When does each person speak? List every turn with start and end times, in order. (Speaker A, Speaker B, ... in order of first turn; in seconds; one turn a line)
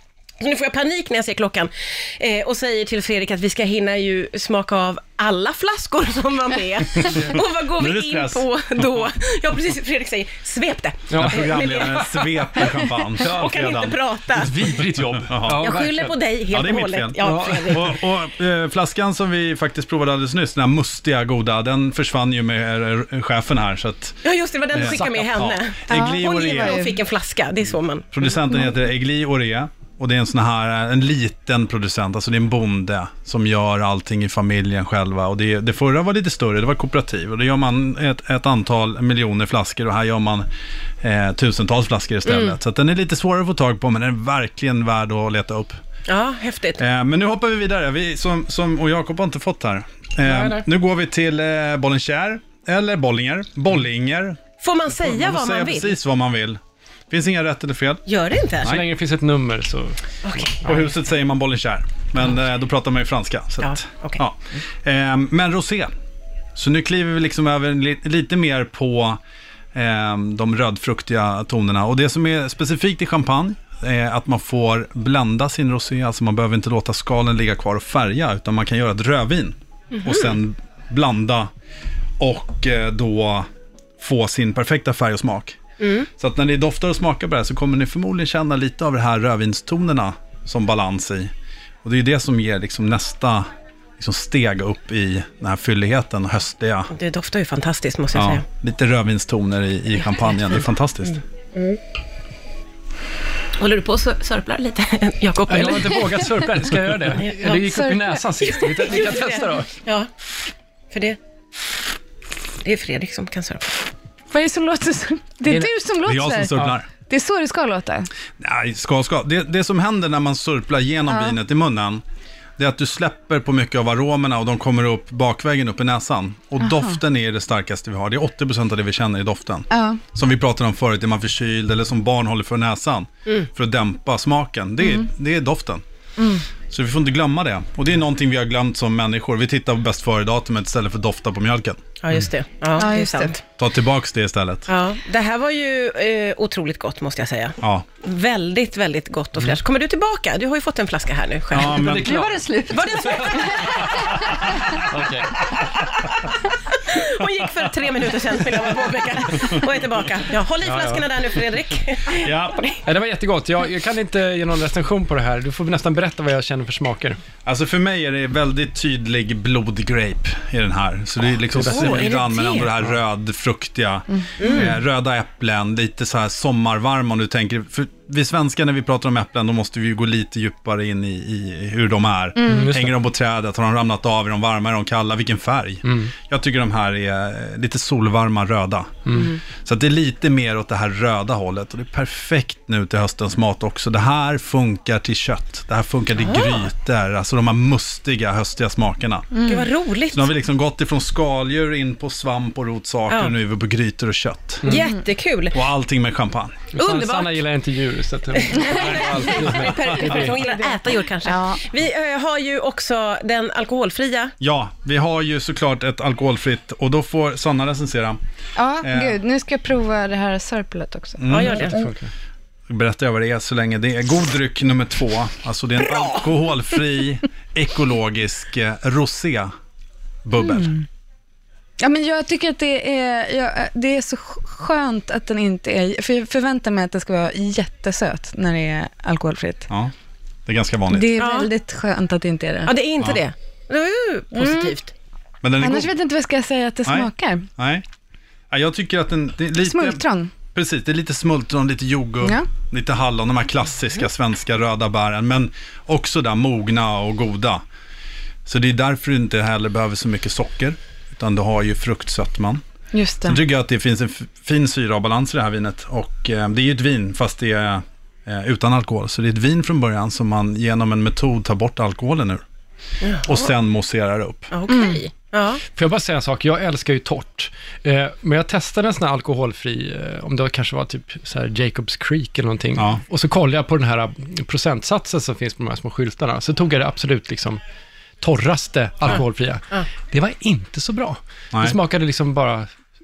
Speaker A: 0.4-14.6
Speaker B: 7.0-7.4
Speaker C: 7.4-8.4
Speaker B: 11.1-11.6
Speaker C: 11.1-14.0
Speaker B: 13.2-13.8
Speaker B: 14.3-16.2
Speaker C: 15.1-15.7
Speaker A: 15.6-17.9
Speaker C: 16.5-24.2
Speaker B: 17.2-18.0
Speaker A: 24.2-28.3
Speaker C: 24.7-26.9
Speaker B: 24.8-25.6
Speaker D: 25.9-27.0
Speaker C: 28.1-40.5
Speaker C: 41.0-45.8
Speaker A: 42.3-42.5
Speaker A: 46.1-46.8
Speaker C: 46.8-56.6
Speaker B: 50.2-50.7
Speaker A: 54.6-56.0
Speaker C: 57.1-58.0
Speaker A: 58.0-58.8
Speaker B: 58.6-60.0
Speaker A: 60.2-60.6
Speaker C: 60.6-65.9
Speaker A: 63.6-64.2
Speaker C: 66.5-69.2
Speaker C: 69.7-81.5
Speaker A: 79.9-80.4
Speaker C: 82.2-83.5
Speaker C: 84.0-85.6
Speaker A: 85.8-86.1
Speaker C: 86.2-91.3
Speaker C: 91.8-93.5
Speaker C: 94.0-96.9
Speaker A: 96.9-98.4
Speaker C: 98.1-101.2
Speaker A: 103.6-106.2
Speaker B: 105.5-109.7
Speaker A: 107.2-107.7
Speaker D: 107.7-109.1
Speaker A: 108.7-110.1
Speaker A: 110.9-111.2
Speaker A: 112.6-113.8
Speaker D: 114.3-118.1
Speaker B: 115.5-115.7
Speaker C: 116.0-116.9
Speaker C: 118.4-122.0
Speaker D: 121.1-121.3
Speaker C: 122.6-135.8
Speaker D: 126.6-127.0
Speaker D: 129.7-130.0
Speaker D: 136.2-136.4
Speaker C: 136.7-141.8
Speaker A: 142.0-143.4
Speaker D: 142.8-143.3
Speaker C: 143.6-144.7
Speaker A: 144.7-154.2
Speaker C: 151.5-152.4
Speaker B: 151.5-155.6
Speaker D: 153.4-153.8
Speaker C: 153.9-155.9
Speaker A: 156.7-162.3
Speaker B: 160.6-161.1
Speaker C: 162.2-162.8
Speaker B: 162.8-167.2
Speaker C: 167.4-199.4
Speaker B: 171.5-172.9
Speaker A: 171.7-172.7
Speaker A: 174.4-174.7
Speaker D: 182.4-182.7
Speaker B: 182.5-183.0
Speaker B: 185.8-186.1
Speaker A: 189.1-189.4
Speaker A: 196.2-196.7
Speaker D: 199.4-199.7
Speaker A: 199.4-200.3
Speaker C: 200.1-204.8
Speaker A: 203.1-203.3
Speaker B: 204.6-204.9
Speaker A: 204.6-205.6
Speaker C: 205.5-206.7
Speaker B: 206.7-210.4
Speaker A: 206.7-207.4
Speaker A: 208.3-214.3
Speaker D: 208.6-208.9
Speaker C: 208.7-210.0
Speaker D: 210.0-211.6
Speaker C: 214.4-218.2
Speaker D: 218.6-221.2
Speaker C: 218.8-219.2
Speaker C: 221.2-221.8
Speaker A: 221.3-221.8
Speaker B: 221.5-222.1
Speaker C: 222.7-229.5
Speaker C: 230.2-230.7
Speaker D: 230.4-230.8
Speaker D: 231.8-239.7
Speaker C: 240.4-241.2
Speaker D: 240.9-242.7
Speaker A: 241.2-241.5
Speaker A: 242.6-244.9
Speaker D: 244.3-244.7
Speaker C: 245.4-245.9
Speaker D: 245.6-247.5
Speaker C: 246.8-247.8
Speaker C: 248.5-257.6
Speaker D: 249.6-250.3
Speaker D: 252.2-252.5
Speaker C: 258.4-262.6
Speaker D: 262.9-263.4
Speaker C: 263.2-272.4
Speaker A: 273.0-273.5
Speaker C: 273.2-274.5
Speaker A: 274.5-275.6
Speaker D: 274.7-275.0
Speaker B: 275.7-287.6
Speaker C: 282.8-283.0
Speaker B: 288.2-292.7
Speaker C: 291.5-291.8